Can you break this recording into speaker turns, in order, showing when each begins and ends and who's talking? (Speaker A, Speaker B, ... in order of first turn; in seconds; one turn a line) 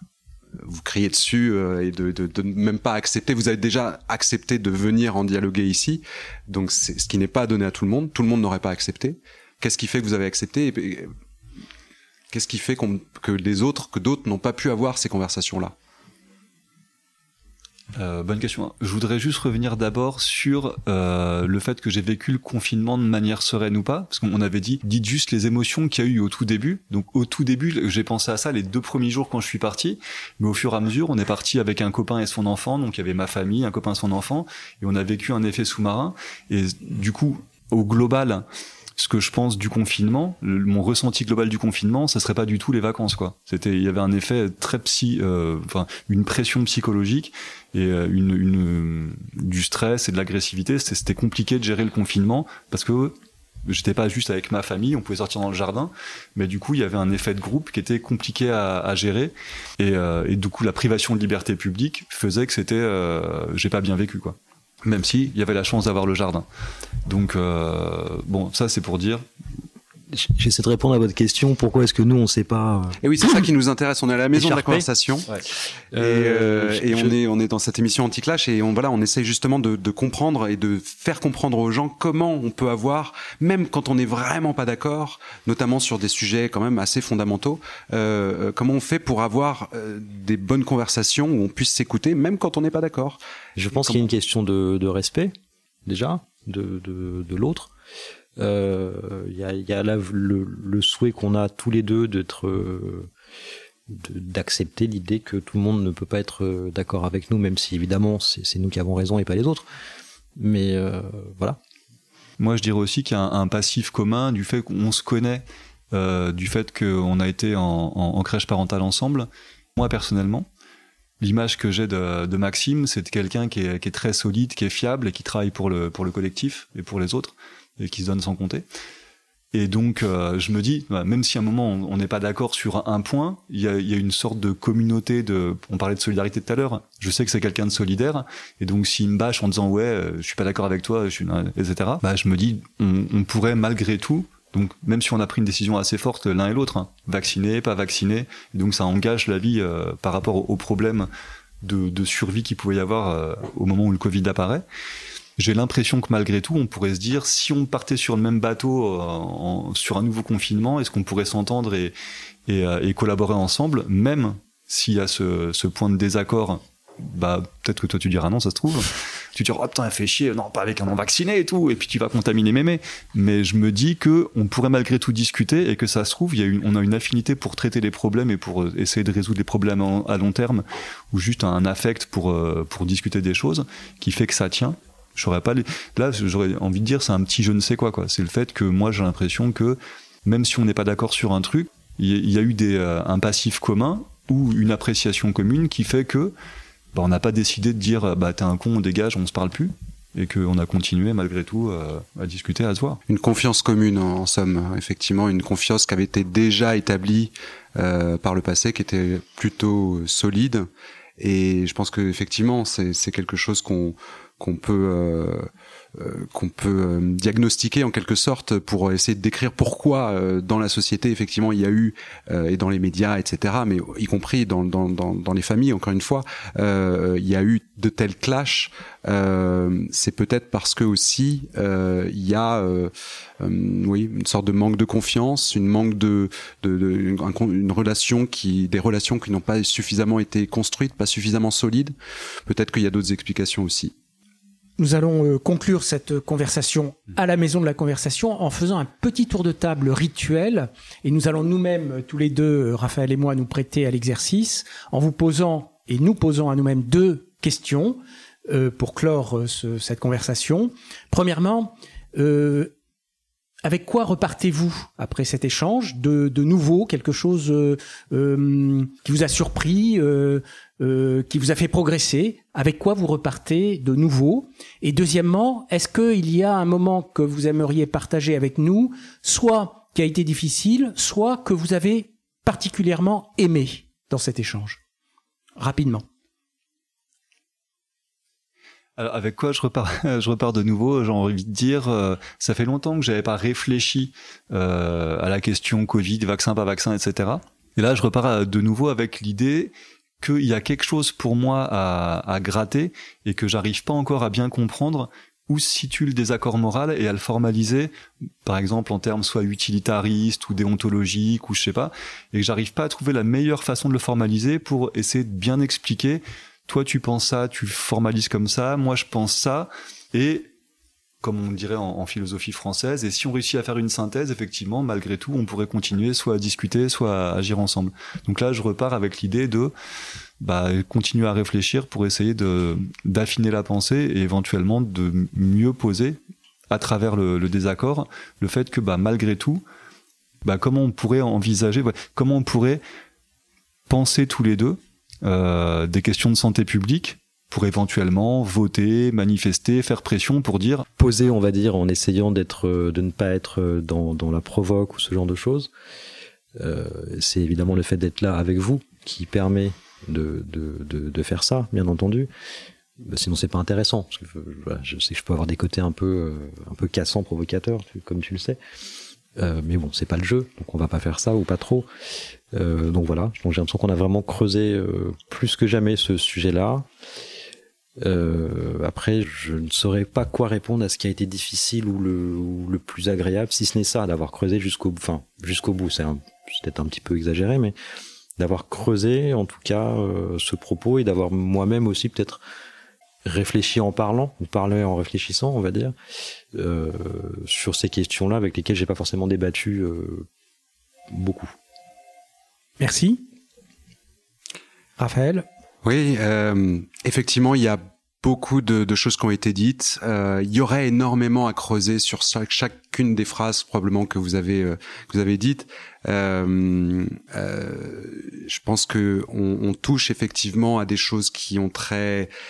Speaker A: 0.6-11.1
Speaker A: 12.3-15.7
Speaker B: 17.9-38.4
Speaker B: 39.0-53.1
Speaker B: 53.6-66.5
Speaker B: 67.0-69.2
Speaker C: 70.1-73.0
Speaker A: 73.0-75.3
Speaker C: 74.3-74.9
Speaker C: 75.9-77.1
Speaker A: 75.9-93.2
Speaker C: 93.6-95.3
Speaker A: 93.7-94.1
Speaker C: 95.8-97.7
Speaker C: 98.4-103.1
Speaker C: 103.9-109.6
Speaker C: 110.4-111.6
Speaker B: 112.4-120.5
Speaker B: 121.2-128.6
Speaker B: 129.5-151.1
Speaker B: 151.6-154.6
Speaker B: 155.4-161.9
Speaker B: 162.5-196.3
Speaker B: 196.9-203.0
Speaker A: 203.1-241.9
Speaker A: 242.5-243.9
Speaker D: 244.8-262.7
Speaker D: 263.6-284.8
Speaker D: 285.6-286.1
Speaker B: 289.0-307.9
Speaker B: 308.4-320.5
Speaker B: 321.2-329.7
Speaker B: 330.4-336.2
Speaker B: 336.7-339.6
Speaker B: 340.4-342.8
Speaker B: 343.9-350.9
Speaker C: 351.0-355.7
Speaker C: 356.6-362.3
Speaker C: 363.0-368.6
Speaker C: 369.4-371.9
Speaker C: 372.5-376.9
Speaker C: 378.0-387.7
Speaker C: 388.4-392.4
Speaker C: 393.2-395.9
Speaker C: 396.5-400.3
Speaker C: 401.1-401.5
Speaker D: 402.8-403.2
Speaker D: 405.0-405.4
Speaker A: 405.8-422.3